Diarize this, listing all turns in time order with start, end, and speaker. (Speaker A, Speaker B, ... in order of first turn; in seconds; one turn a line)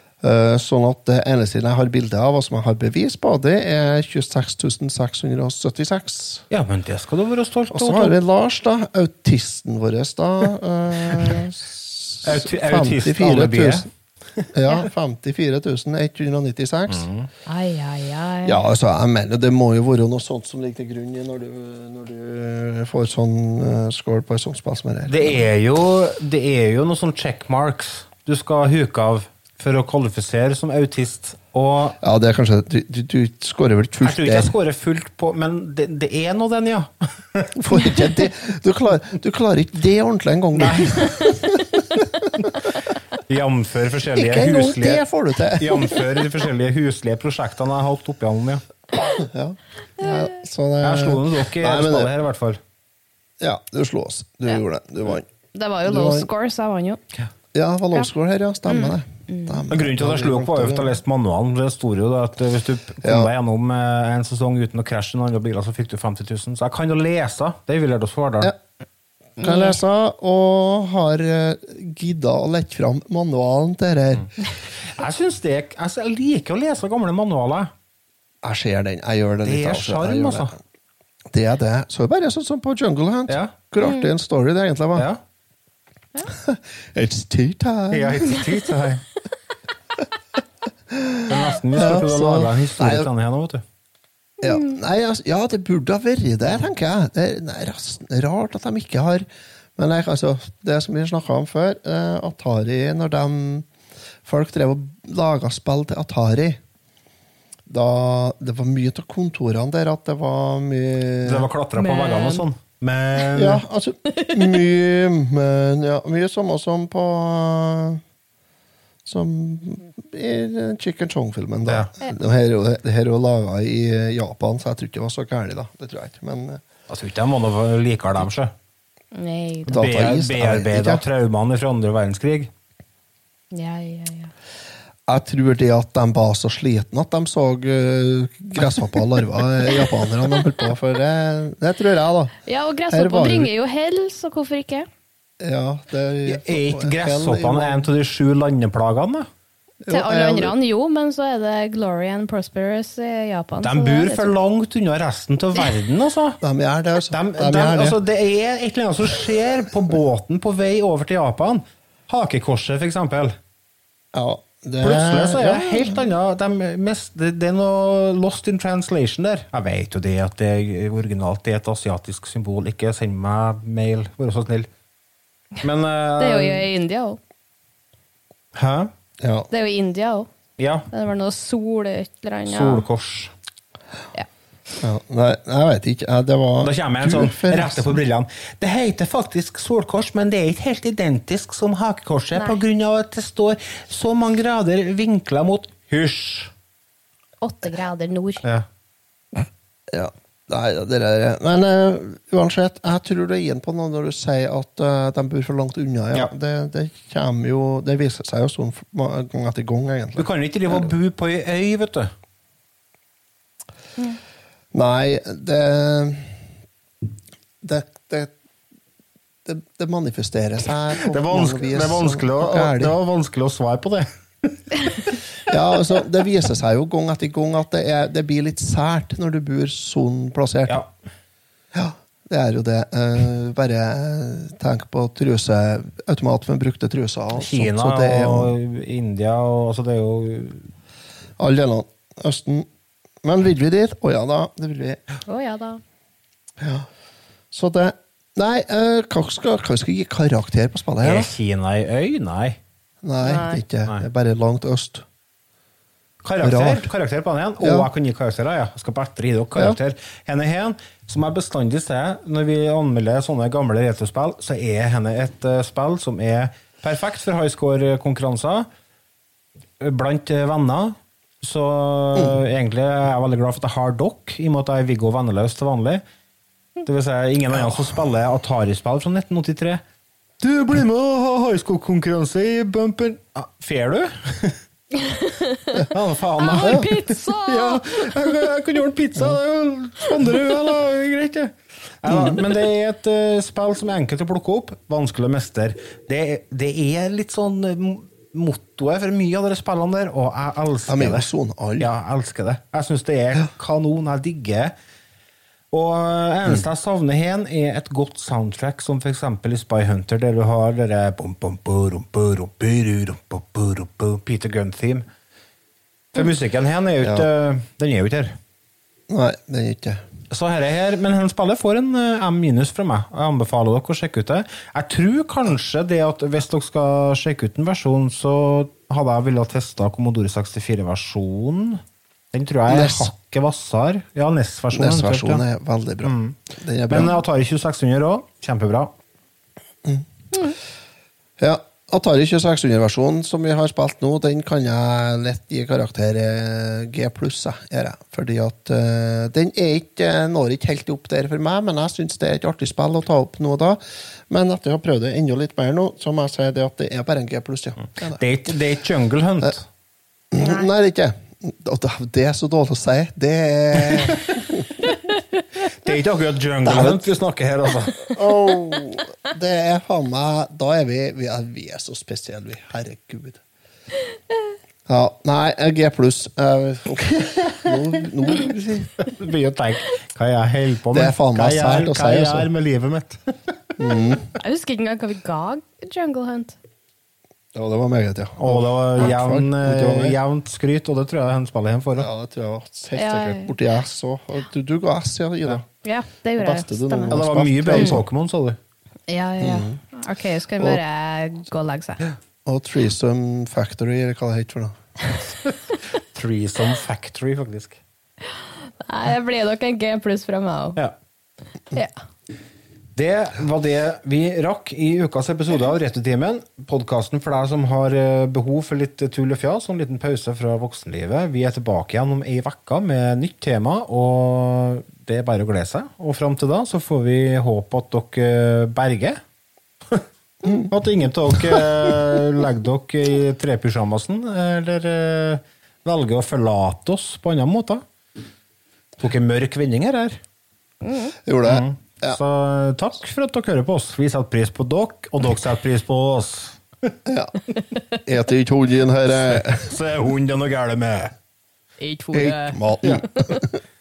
Speaker A: 0.2-6.5
Speaker B: 6.5-8.2
Speaker A: 7.7-13.9
Speaker B: 12.2-14.5
Speaker A: 14.5-17.1
Speaker B: 16.9-17.3
Speaker C: 17.5-18.6
Speaker A: 18.4-25.4
Speaker B: 25.1-32.0
Speaker A: 32.0-34.5
Speaker B: 34.0-38.0
Speaker A: 37.6-42.3
Speaker B: 40.5-41.3
Speaker B: 43.3-45.0
Speaker A: 44.2-46.0
Speaker B: 45.6-48.6
Speaker A: 49.2-52.1
Speaker C: 50.0-50.3
Speaker B: 50.8-52.6
Speaker A: 53.4-55.3
Speaker C: 55.5-57.0
Speaker A: 55.9-56.3
Speaker A: 57.5-61.0
Speaker C: 58.7-59.6
Speaker B: 59.7-68.5
Speaker A: 63.0-63.3
Speaker A: 69.4-74.3
Speaker C: 69.4-69.8
Speaker B: 74.8-77.7
Speaker A: 78.4-80.6
Speaker B: 79.5-80.5
Speaker A: 81.3-85.1
Speaker C: 83.8-84.1
Speaker A: 86.4-88.4
Speaker B: 87.9-89.0
Speaker A: 90.9-93.1
Speaker B: 91.3-93.6
Speaker A: 94.4-103.7
Speaker C: 94.4-94.8
Speaker A: 104.2-106.6
Speaker A: 107.7-111.5
Speaker B: 111.2-113.6
Speaker C: 111.8-112.5
Speaker A: 113.3-118.0
Speaker A: 119.0-126.6
Speaker B: 126.9-128.5
Speaker C: 129.2-129.8
Speaker B: 129.7-132.5
Speaker A: 129.7-131.0
Speaker C: 133.5-134.3
Speaker A: 135.1-142.3
Speaker C: 142.5-144.9
Speaker A: 142.9-143.5
Speaker A: 145.4-147.9
Speaker B: 146.3-149.3
Speaker A: 149.8-150.6
Speaker C: 149.9-154.3
Speaker B: 153.6-156.4
Speaker A: 156.4-158.0
Speaker B: 157.1-163.3
Speaker A: 164.1-166.0
Speaker B: 164.8-174.7
Speaker B: 175.6-176.7
Speaker C: 176.2-177.2
Speaker B: 178.6-178.9
Speaker A: 179.2-179.5
Speaker C: 179.5-180.3
Speaker B: 180.6-180.9
Speaker C: 180.9-182.8
Speaker B: 182.5-183.3
Speaker A: 184.8-188.0
Speaker B: 186.6-196.5
Speaker C: 197.4-198.4
Speaker A: 199.9-210.9
Speaker B: 210.2-212.1
Speaker A: 214.7-216.4
Speaker A: 217.6-218.3
Speaker A: 219.4-222.9
Speaker B: 221.1-225.2
Speaker A: 225.5-230.8
Speaker A: 231.7-238.6
Speaker B: 237.3-240.7
Speaker A: 241.4-242.7
Speaker A: 243.2-245.0
Speaker C: 245.3-245.8
Speaker A: 246.6-246.9
Speaker A: 247.5-251.3
Speaker B: 251.0-252.6
Speaker A: 253.0-255.1
Speaker C: 253.2-253.6
Speaker B: 256.2-268.7
Speaker A: 256.4-256.9
Speaker A: 257.6-257.9
Speaker B: 269.8-276.0
Speaker B: 276.9-279.8
Speaker A: 277.5-278.0
Speaker B: 280.4-284.6
Speaker C: 285.0-285.7
Speaker B: 285.9-304.7
Speaker C: 286.4-287.9
Speaker A: 292.1-292.4
Speaker A: 300.9-301.9
Speaker B: 305.7-315.1
Speaker B: 316.1-318.4
Speaker A: 317.0-317.3
Speaker A: 319.1-320.0
Speaker B: 320.3-331.8
Speaker B: 332.3-335.4
Speaker A: 332.7-333.1
Speaker A: 334.7-337.1
Speaker B: 336.0-336.4
Speaker B: 336.9-338.9
Speaker A: 341.4-358.5
Speaker B: 358.0-359.6
Speaker A: 360.3-364.6
Speaker B: 363.8-364.2
Speaker B: 365.8-368.1
Speaker A: 366.6-367.1
Speaker A: 368.1-373.4
Speaker A: 374.9-379.0
Speaker B: 379.0-383.7
Speaker A: 380.9-382.5
Speaker A: 383.8-384.2
Speaker C: 384.4-386.6
Speaker A: 387.5-390.2
Speaker B: 388.4-392.1
Speaker A: 392.0-395.7
Speaker C: 393.0-393.5
Speaker C: 395.8-397.1
Speaker A: 396.4-398.0
Speaker B: 397.1-398.6
Speaker C: 399.1-402.1
Speaker A: 399.4-399.8
Speaker A: 402.4-404.8
Speaker B: 406.1-407.8
Speaker C: 408.4-410.8
Speaker B: 412.9-429.2
Speaker A: 430.4-430.7
Speaker B: 430.7-437.8
Speaker A: 431.5-431.9
Speaker B: 439.0-440.2
Speaker C: 440.9-441.1
Speaker A: 441.2-442.2
Speaker B: 441.4-446.9
Speaker A: 447.1-447.3
Speaker A: 448.1-449.7
Speaker B: 449.1-451.1
Speaker C: 451.8-452.6
Speaker A: 452.1-453.6